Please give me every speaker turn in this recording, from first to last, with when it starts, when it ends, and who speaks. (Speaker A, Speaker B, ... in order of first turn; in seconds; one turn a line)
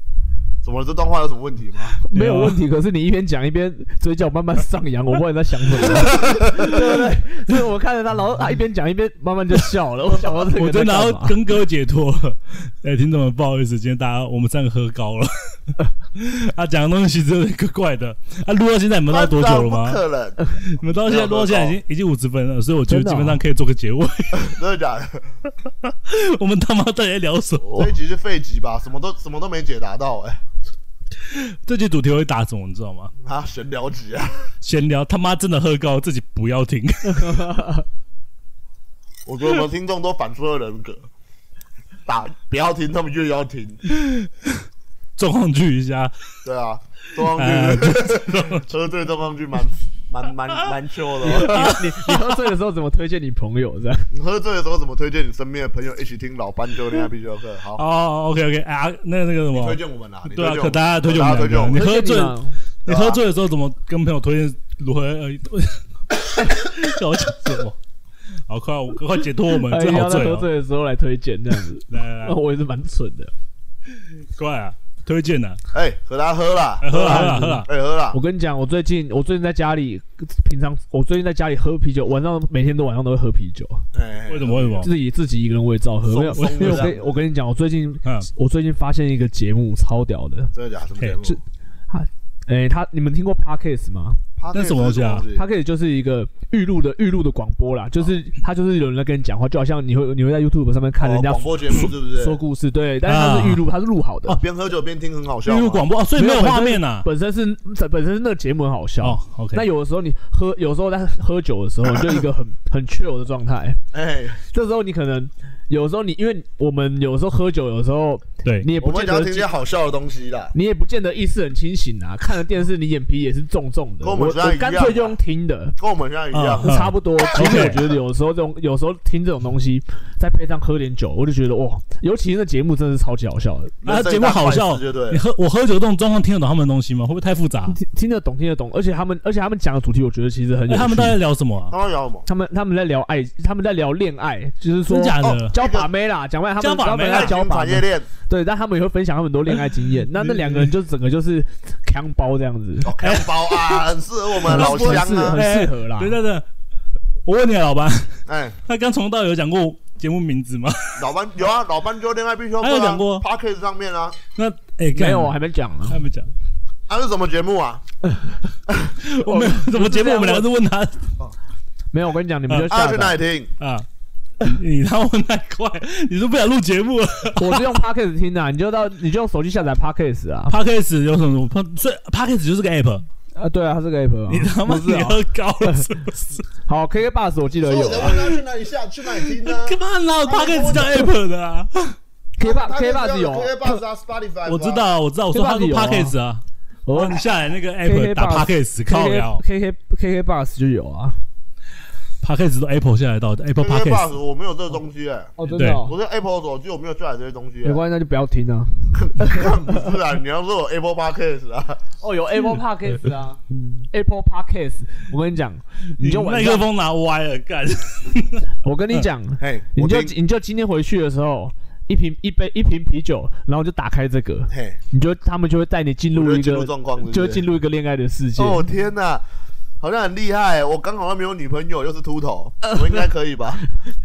Speaker A: 0.6-2.0
Speaker B: 2.0-11.4
Speaker C: 2.1-2.6
Speaker A: 5.9-6.7
Speaker C: 10.5-20.0
Speaker A: 19.1-21.8
Speaker C: 20.6-24.6
Speaker B: 22.9-23.4
Speaker A: 24.3-25.4
Speaker C: 25.9-27.9
Speaker A: 27.8-30.4
Speaker C: 31.3-33.1
Speaker A: 33.2-34.5
Speaker C: 34.6-37.6
Speaker B: 37.2-37.8
Speaker A: 39.3-41.1
Speaker A: 42.1-43.9
Speaker C: 43.9-44.6
Speaker C: 45.2-46.1
Speaker A: 46.5-51.9
Speaker C: 47.2-48.7
Speaker B: 51.2-54.1
Speaker C: 51.3-52.2
Speaker A: 54.1-57.8
Speaker C: 57.8-67.8
Speaker A: 59.5-61.8
Speaker B: 61.7-62.6
Speaker A: 62.9-63.2
Speaker C: 68.5-70.5
Speaker B: 69.6-73.3
Speaker C: 71.9-72.4
Speaker C: 73.9-75.6
Speaker A: 75.7-78.2
Speaker C: 76.8-77.7
Speaker B: 76.9-83.9
Speaker A: 83.9-84.9
Speaker C: 84.3-84.9
Speaker B: 84.8-90.5
Speaker A: 86.0-87.2
Speaker C: 86.4-86.9
Speaker A: 90.5-91.4
Speaker B: 91.2-94.2
Speaker A: 94.4-95.5
Speaker C: 94.5-95.3
Speaker B: 95.3-104.4
Speaker A: 101.0-102.4
Speaker C: 103.0-103.7
Speaker A: 104.3-105.9
Speaker C: 105.5-107.1
Speaker B: 106.1-113.8
Speaker C: 109.0-109.7
Speaker A: 111.8-112.2
Speaker A: 113.9-114.4
Speaker B: 114.5-119.5
Speaker A: 118.8-120.5
Speaker B: 120.5-125.8
Speaker A: 124.0-125.2
Speaker A: 125.8-127.8
Speaker C: 126.3-127.9
Speaker B: 126.6-133.8
Speaker A: 133.8-135.2
Speaker C: 133.8-137.8
Speaker B: 137.7-141.2
Speaker C: 140.7-141.8
Speaker A: 141.7-142.3
Speaker B: 142.3-152.9
Speaker C: 144.9-145.5
Speaker A: 145.2-145.9
Speaker C: 146.6-147.4
Speaker A: 147.1-148.1
Speaker C: 150.1-150.7
Speaker A: 152.8-155.4
Speaker C: 153.0-153.9
Speaker C: 154.4-156.4
Speaker B: 154.4-156.2
Speaker C: 157.3-161.0
Speaker A: 158.3-158.6
Speaker A: 161.0-164.2
Speaker C: 162.6-163.2
Speaker C: 164.4-166.3
Speaker B: 164.9-166.0
Speaker A: 166.9-167.8
Speaker C: 169.0-171.1
Speaker B: 169.2-170.5
Speaker B: 171.9-173.2
Speaker A: 172.7-173.5
Speaker C: 173.6-173.9
Speaker C: 174.4-177.6
Speaker B: 177.4-180.6
Speaker C: 180.5-183.1
Speaker B: 183.3-185.9
Speaker C: 184.3-186.4
Speaker B: 186.6-188.2
Speaker A: 187.6-191.1
Speaker C: 188.1-188.4
Speaker C: 189.2-192.0
Speaker B: 192.4-193.8
Speaker A: 192.4-194.8
Speaker C: 194.5-196.4
Speaker B: 195.3-196.2
Speaker B: 196.9-197.3
Speaker C: 196.9-199.4
Speaker B: 197.8-201.2
Speaker C: 202.2-204.1
Speaker A: 203.6-207.8
Speaker B: 205.4-206.0
Speaker C: 205.5-205.8
Speaker B: 207.6-209.9
Speaker A: 208.9-211.8
Speaker B: 212.0-216.7
Speaker C: 216.0-219.1
Speaker B: 218.6-228.7
Speaker A: 219.4-220.1
Speaker A: 224.5-224.8
Speaker A: 226.1-227.4
Speaker A: 228.4-229.2
Speaker A: 229.8-233.6